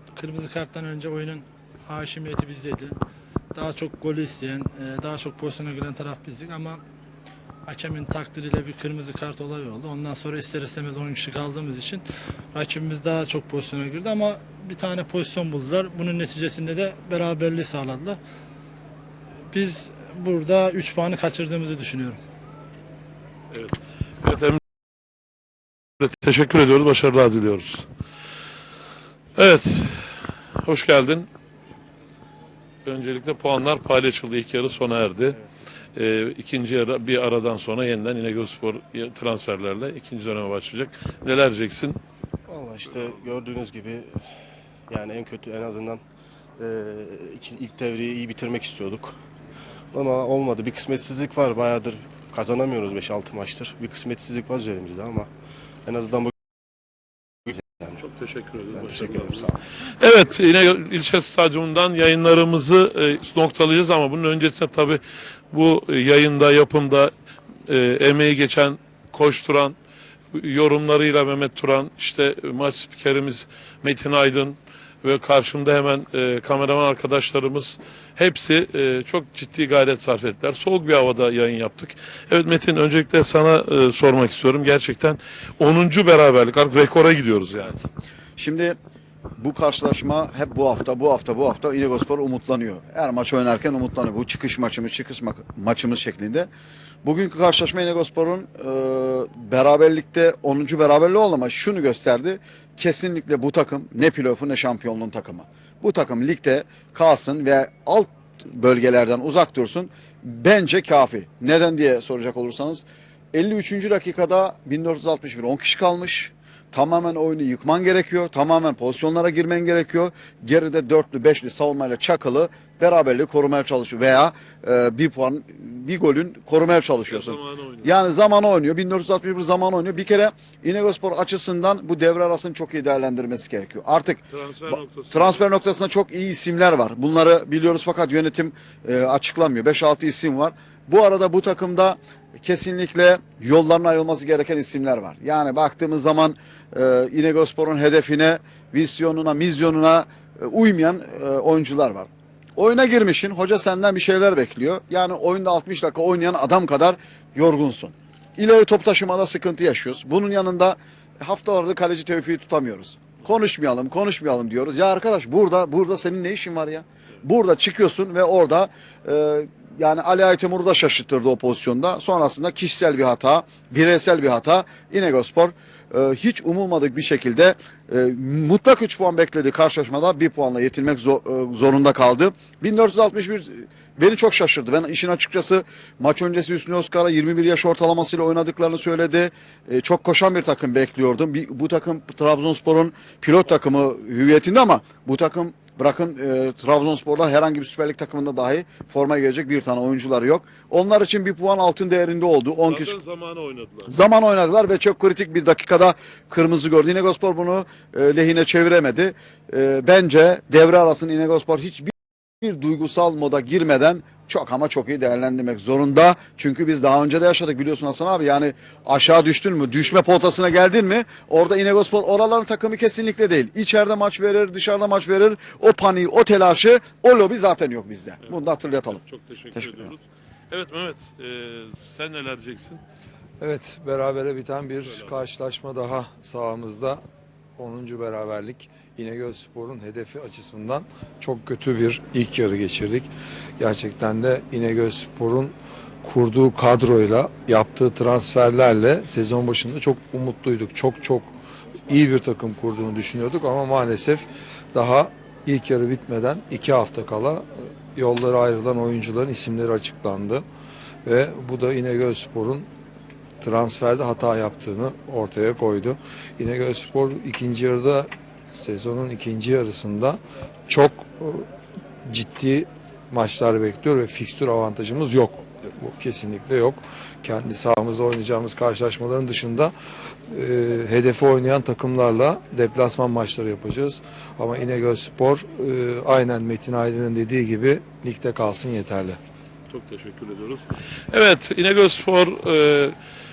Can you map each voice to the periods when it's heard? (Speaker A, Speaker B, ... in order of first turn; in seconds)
Speaker A: 0.1-3.0, 3.5-6.8, 7.7-12.0, 12.5-18.2, 19.5-22.2
Speaker B: 23.5-24.6, 26.0-27.9, 29.4-30.1, 30.6-31.3, 32.9-35.4, 36.0-42.0, 58.0-65.0, 65.5-67.1, 67.7-69.8, 70.3-87.8, 127.0-127.9, 134.3-135.5, 202.7-203.9, 228.9-232.8, 234.8-235.1, 289.7-292.9
Speaker C: 42.5-44.2, 44.9-46.0, 46.6-49.1, 49.9-55.3, 55.9-56.3, 57.5-58.0, 58.7-59.6
Speaker D: 88.4-88.8, 89.4-96.5, 97.0-202.9, 203.8-229.0, 229.5-229.9
Speaker E: 233.4-237.0, 237.6-251.3, 251.9-260.4, 261.0-262.7, 263.4-271.5, 272.1-279.7, 280.3-289.2